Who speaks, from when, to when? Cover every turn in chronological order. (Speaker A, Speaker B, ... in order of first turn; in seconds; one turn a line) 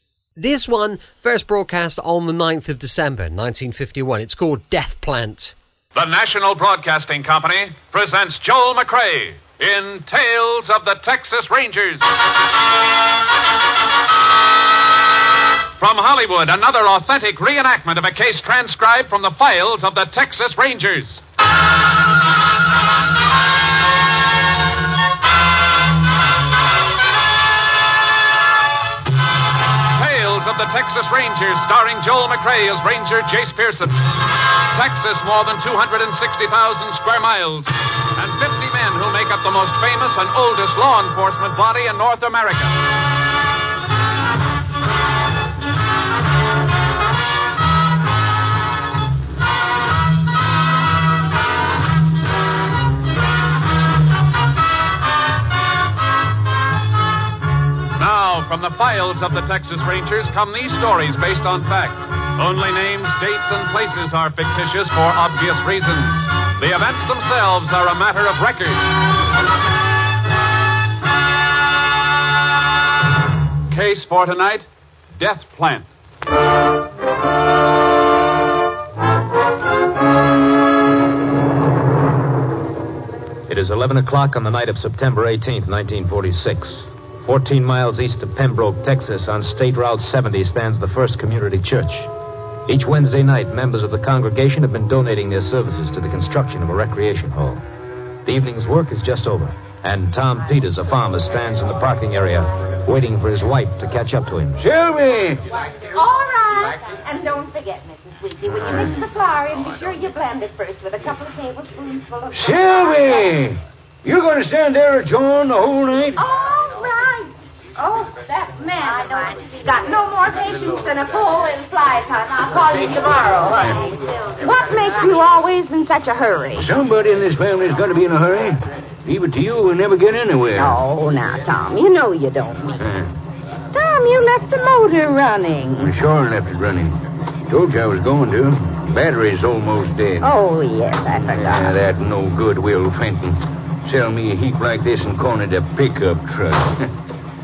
Speaker A: 0.4-5.5
Speaker B: 5.9-12.1
Speaker B: 15.8-21.2
Speaker B: 29.9-42.8
Speaker B: 58.0-69.0
Speaker B: 73.7-75.9
Speaker C: 83.5-92.1
Speaker C: 92.7-97.6
Speaker C: 98.2-104.6
Speaker D: 104.6-105.4
Speaker E: 105.9-113.3
Speaker D: 112.3-116.2
Speaker E: 116.2-126.7
Speaker D: 126.5-130.8
Speaker E: 130.5-132.8
Speaker D: 132.8-133.1
Speaker E: 133.7-135.9
Speaker D: 135.8-137.0
Speaker D: 137.5-140.3
Speaker E: 140.2-141.7
Speaker D: 141.2-146.9